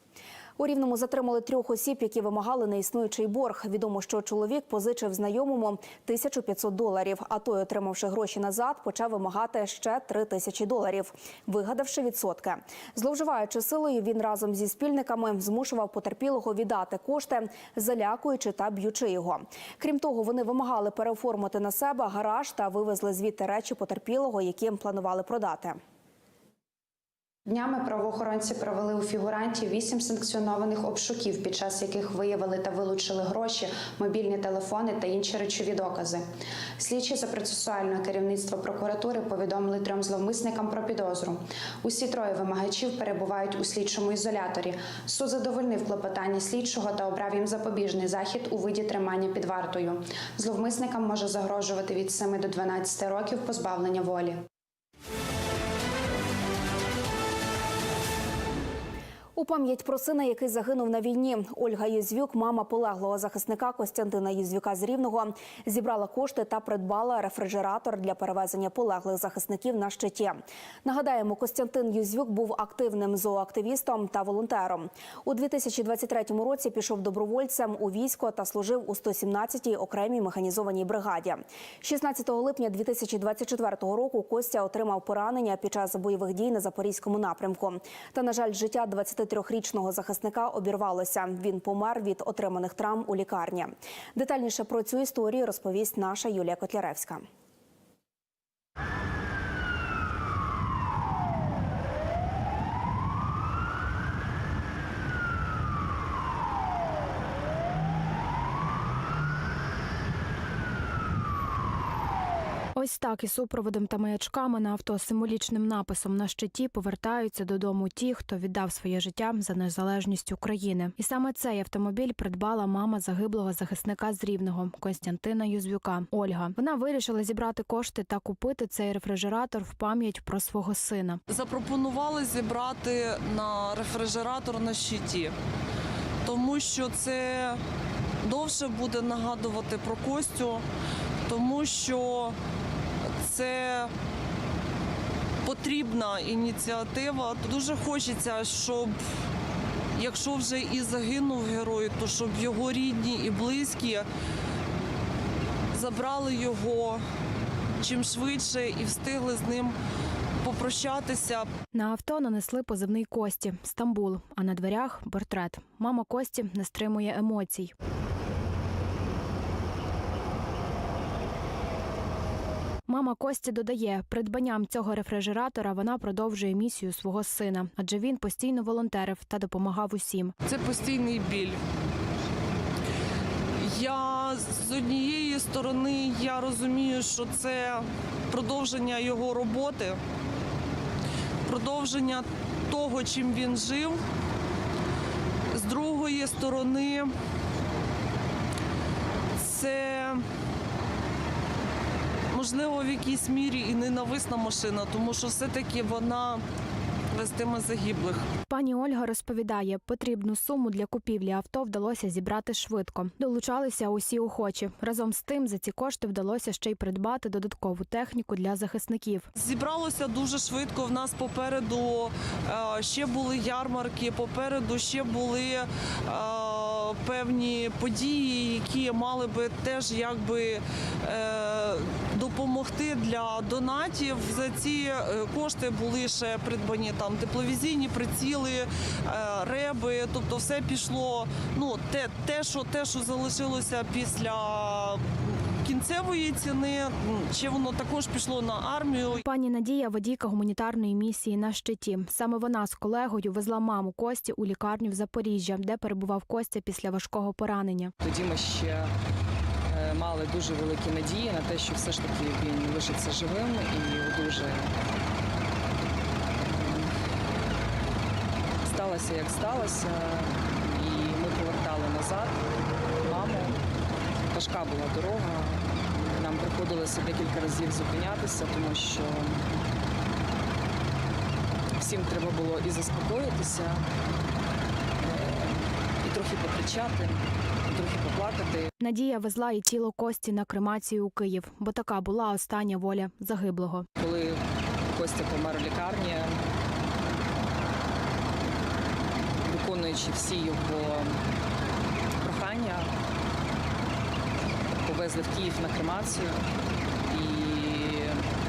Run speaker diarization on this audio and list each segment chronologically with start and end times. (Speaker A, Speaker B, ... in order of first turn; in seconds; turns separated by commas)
Speaker A: 0.6-25.8, Speaker B: 27.5-36.3, Speaker B: 36.8-54.4, Speaker A: 59.4-97.3, Speaker C: 112.8-131.2, Speaker D: 131.3-135.3, Speaker D: 136.2-137.6, Speaker D: 138.2-140.6, Speaker D: 141.3-142.3, Speaker D: 143.2-143.9, Speaker D: 145.4-149.0, Speaker D: 150.0-154.1, Speaker D: 155.7-157.0, Speaker D: 157.8-159.8, Speaker D: 160.4-161.5, Speaker C: 161.7-167.7, Speaker C: 172.9-180.3, Speaker D: 180.4-181.6, Speaker D: 183.6-190.0, Speaker D: 191.5-194.0, Speaker D: 195.5-197.1, Speaker D: 199.4-200.2, Speaker D: 202.3-206.4, Speaker D: 207.1-208.3, Speaker C: 208.5-219.3, Speaker D: 219.3-249.2, Speaker C: 249.2-257.9, Speaker E: 258.0-258.9, Speaker E: 259.7-264.7, Speaker E: 266.4-266.9, Speaker E: 268.6-272.4, Speaker E: 273.0-273.6, Speaker E: 274.3-279.4, Speaker E: 281.8-283.8, Speaker E: 285.0-288.7, Speaker C: 288.8-293.9, Speaker E: 294.0-294.4, Speaker E: 294.9-296.3, Speaker E: 299.4-301.1, Speaker E: 302.2-302.9, Speaker E: 304.8-306.4, Speaker E: 307.1-308.2